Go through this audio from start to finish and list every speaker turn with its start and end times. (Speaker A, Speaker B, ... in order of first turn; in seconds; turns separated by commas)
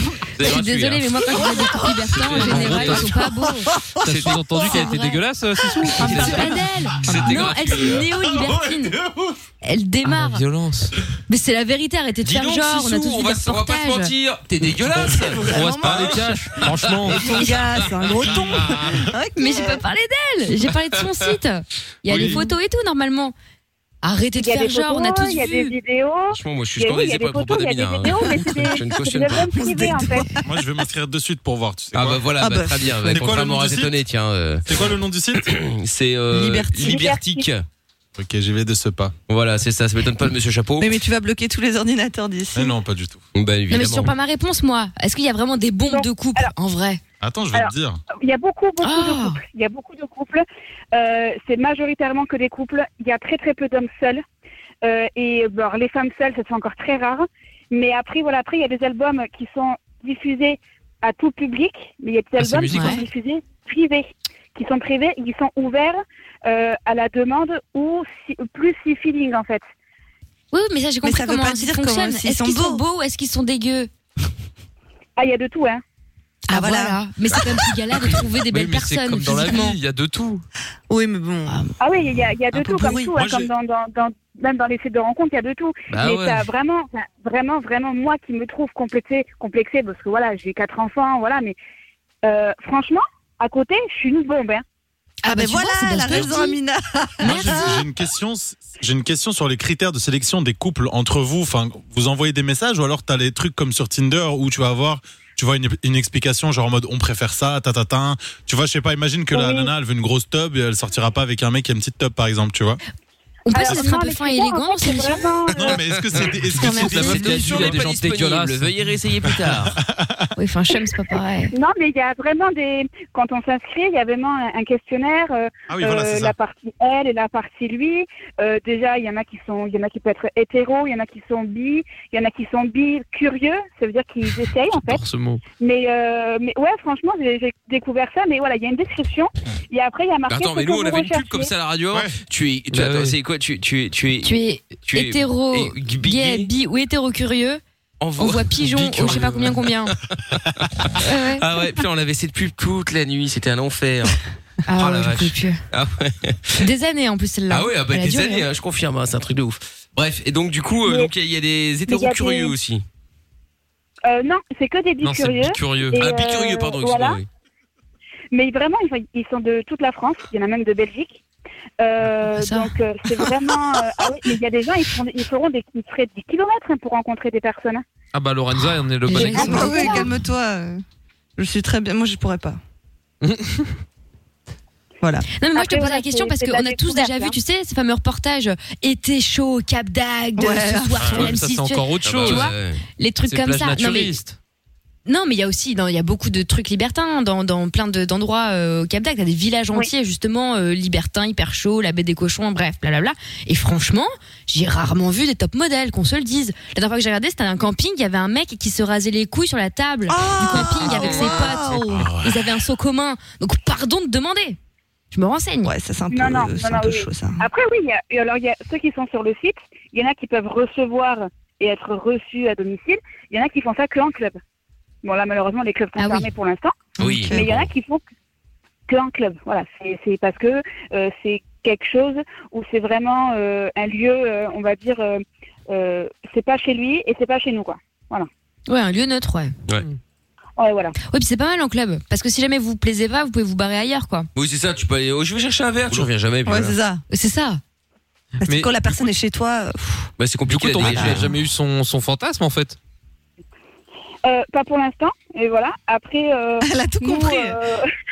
Speaker A: 0.4-1.2, Speaker B: 0.4-3.7, Speaker C: 1.4-2.1, Speaker A: 2.1-3.1, Speaker D: 2.3-3.2, Speaker C: 2.9-4.9, Speaker A: 4.0-4.3, Speaker D: 4.0-6.5, Speaker B: 4.6-5.2, Speaker C: 5.8-7.1, Speaker A: 6.0-8.1, Speaker B: 6.0-8.9, Speaker E: 8.1-9.3, Speaker B: 9.6-10.4, Speaker D: 10.1-10.9, Speaker B: 11.3-14.1, Speaker A: 12.2-17.6, Speaker C: 15.2-19.8, Speaker D: 15.4-17.6, Speaker B: 19.4-23.3, Speaker A: 22.1-22.4, Speaker B: 24.0-25.7, Speaker F: 24.4-30.3, Speaker A: 26.3-29.5, Speaker C: 29.5-30.4, Speaker E: 30.4-32.3, Speaker A: 31.9-34.8, Speaker C: 32.4-32.7, Speaker E: 32.9-33.9, Speaker E: 34.6-35.5, Speaker A: 35.3-37.6, Speaker C: 36.3-37.1, Speaker F: 36.8-37.4, Speaker E: 38.1-39.1, Speaker A: 39.3-41.0, Speaker C: 40.8-42.7, Speaker E: 42.5-43.2, Speaker A: 43.3-44.1, Speaker B: 43.7-47.0, Speaker F: 45.9-46.5, Speaker E: 47.2-48.0, Speaker F: 47.5-54.2, Speaker B: 48.8-49.4, Speaker F: 54.8-69.6, Speaker D: 62.4-63.0, Speaker B: 62.7-63.0, Speaker B: 70.5-73.9, Speaker C: 71.0-72.8, Speaker F: 75.2-75.8, Speaker B: 76.5-79.8, Speaker C: 76.5-77.0, Speaker D: 78.5-80.4, Speaker B: 80.9-81.7, Speaker C: 80.9-81.4, Speaker F: 81.8-91.5, Speaker C: 82.5-83.1, Speaker E: 83.1-83.5, Speaker D: 85.9-86.5, Speaker F: 92.2-94.6, Speaker B: 95.2-96.6, Speaker C: 95.3-97.8, Speaker E: 97.2-112.8, Speaker B: 97.2-97.7, Speaker F: 109.3-109.7, Speaker B: 113.5-115.2, Speaker F: 113.5-115.8, Speaker E: 115.5-117.8, Speaker B: 116.5-117.1, Speaker A: 116.6-119.8, Speaker D: 116.7-118.8, Speaker E: 119.4-120.3, Speaker B: 120.4-121.5, Speaker F: 121.5-135.0, Speaker E: 125.7-126.3, Speaker D: 134.7-135.4, Speaker F: 135.6-141.5, Speaker A: 140.3-144.3, Speaker D: 142.7-143.2, Speaker B: 144.2-147.6, Speaker A: 144.8-146.5, Speaker A: 148.0-154.2, Speaker B: 148.2-149.9, Speaker D: 148.9-149.5, Speaker B: 151.0-151.4, Speaker B: 154.7-155.6, Speaker A: 154.7-156.6, Speaker B: 156.6-158.4, Speaker A: 157.5-162.8, Speaker F: 161.9-162.5, Speaker F: 164.1-167.2, Speaker D: 165.0-166.0, Speaker A: 165.9-167.2, Speaker F: 168.3-171.2, Speaker F: 171.8-177.8, Speaker B: 172.3-172.7, Speaker D: 178.1-179.9, Speaker B: 179.1-180.1, Speaker C: 179.1-180.8, Speaker F: 179.1-180.1, Speaker C: 181.4-182.6, Speaker D: 183.2-183.7, Speaker C: 185.0-185.3, Speaker B: 185.4-194.2, Speaker F: 185.5-187.3, Speaker C: 190.4-191.2, Speaker E: 191.0-191.2, Speaker D: 191.1-192.5, Speaker A: 192.0-192.8, Speaker D: 193.3-194.3, Speaker B: 195.1-214.6, Speaker C: 210.1-212.1, Speaker E: 211.9-212.4, Speaker B: 215.1-215.7, Speaker C: 215.6-217.4, Speaker F: 216.1-224.4, Speaker F: 225.0-226.8, Speaker B: 226.0-226.3, Speaker C: 227.0-227.4, Speaker A: 227.0-227.7, Speaker F: 227.3-228.0, Speaker F: 228.9-238.3, Speaker B: 238.7-239.5, Speaker F: 240.6-240.9, Speaker B: 241.0-244.3, Speaker A: 244.3-246.7, Speaker C: 246.4-247.0, Speaker B: 247.1-247.6, Speaker C: 248.4-250.1, Speaker D: 248.4-248.7, Speaker A: 250.2-251.3, Speaker D: 250.5-252.8, Speaker C: 250.8-251.3, Speaker F: 254.2-257.9, Speaker C: 256.6-257.6